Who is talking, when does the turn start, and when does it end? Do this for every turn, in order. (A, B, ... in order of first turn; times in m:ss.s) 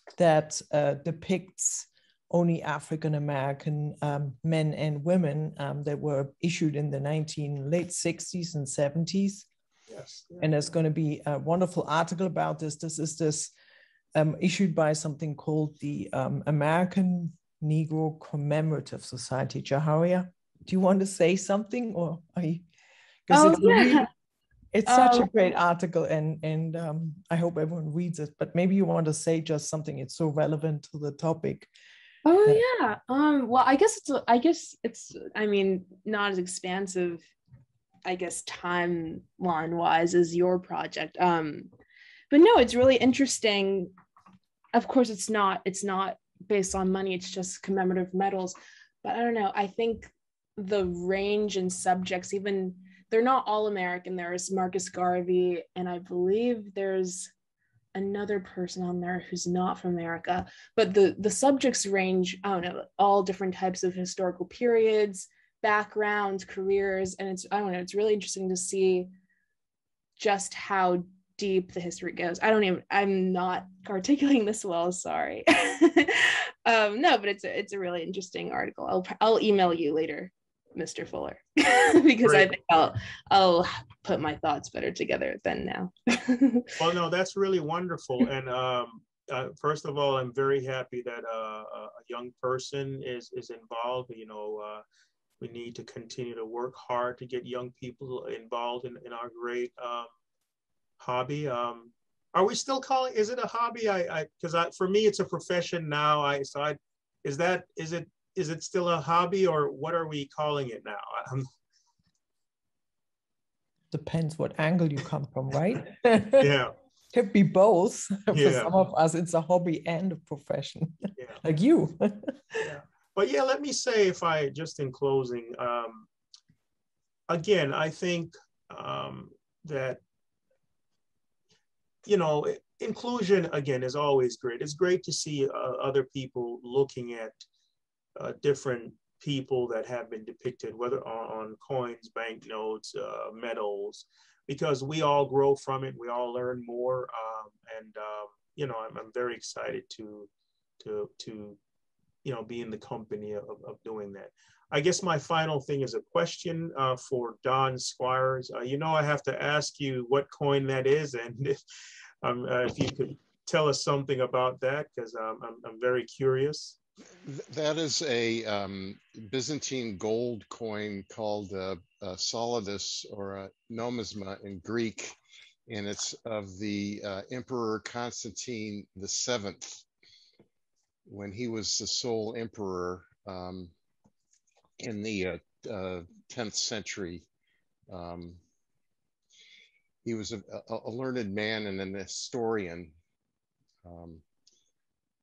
0:00.2-0:09.5 A
0:09.9-0:10.7 B
0:10.4-0:13.5 A
0:14.2-0:22.7 A
0:23.3-0:24.1 A
0:23.3-0:24.1 C
0:24.7-0:31.7 A
0:24.9-0:25.5 C
0:32.2-0:37.3 C
0:38.0-0:41.7 C
0:42.3-0:43.9 C
0:44.7-0:57.3 C
0:58.0-1:09.1 C
1:10.2-1:26.7 C
1:22.2-1:22.5 B
1:26.8-1:34.8 B
1:35.4-1:40.1 B
1:41.0-1:51.5 B
1:53.9-1:56.5 A
1:56.4-1:56.7 B
1:57.1-2:02.7 A
1:58.3-1:58.8 B
2:01.2-2:01.4 B
2:02.6-2:06.1 B
2:07.3-2:10.0 B
2:12.1-2:17.4 B
2:18.2-2:30.3 B
2:30.8-2:31.6 B
2:32.2-2:41.6 B
2:42.2-2:46.8 B
2:47.2-2:55.2 D
2:55.7-2:59.8 D
3:01.1-3:03.7 D
3:04.8-3:07.3 D
3:07.9-3:08.4 D
3:10.0-3:13.0 D
3:13.8-3:14.2 D